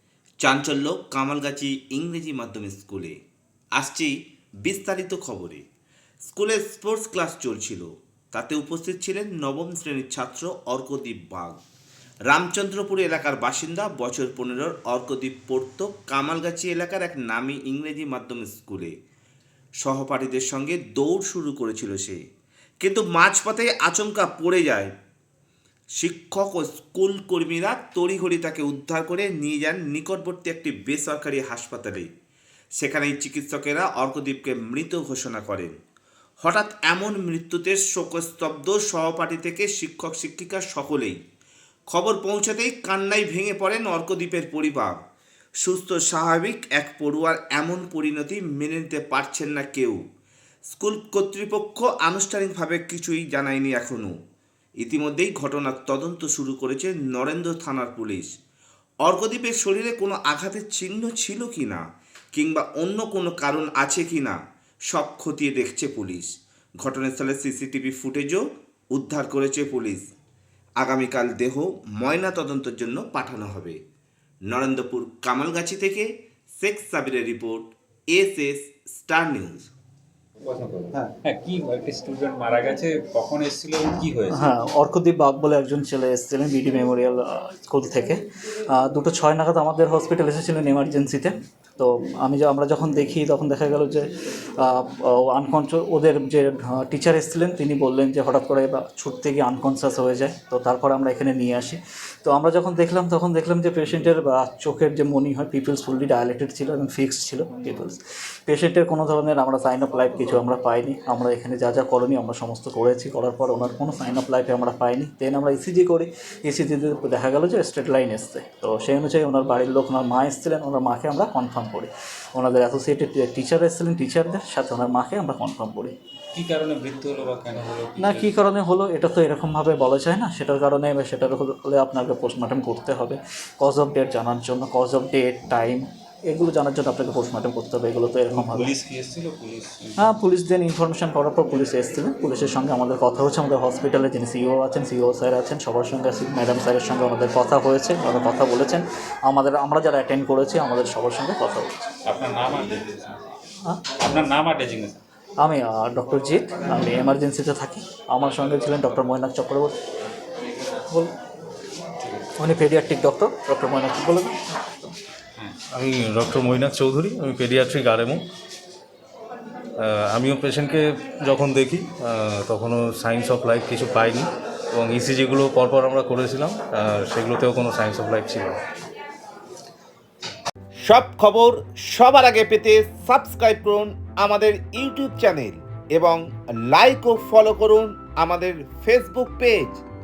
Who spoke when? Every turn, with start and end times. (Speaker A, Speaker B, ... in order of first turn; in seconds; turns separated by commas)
Speaker A: 0.4-3.2, Speaker A: 3.8-5.6, Speaker A: 6.2-11.6, Speaker A: 12.3-18.9, Speaker A: 19.8-22.2, Speaker A: 22.8-24.9, Speaker A: 26.0-32.1, Speaker A: 32.8-35.7, Speaker A: 36.4-41.2, Speaker A: 41.9-45.0, Speaker A: 45.6-50.0, Speaker A: 50.7-54.1, Speaker A: 54.8-58.3, Speaker A: 59.0-61.8, Speaker A: 62.3-64.4, Speaker A: 64.9-66.3, Speaker A: 66.8-68.4, Speaker A: 68.9-70.1, Speaker A: 70.8-73.8, Speaker A: 74.5-79.7, Speaker B: 80.4-84.4, Speaker C: 84.3-126.0, Speaker B: 126.3-128.3, Speaker C: 128.0-138.7, Speaker B: 138.3-140.1, Speaker C: 140.0-151.8, Speaker B: 152.1-153.2, Speaker B: 154.0-155.0, Speaker C: 155.4-159.7, Speaker B: 162.0-162.3, Speaker C: 162.4-164.9, Speaker D: 165.7-168.2, Speaker D: 169.8-178.6, Speaker A: 180.9-189.8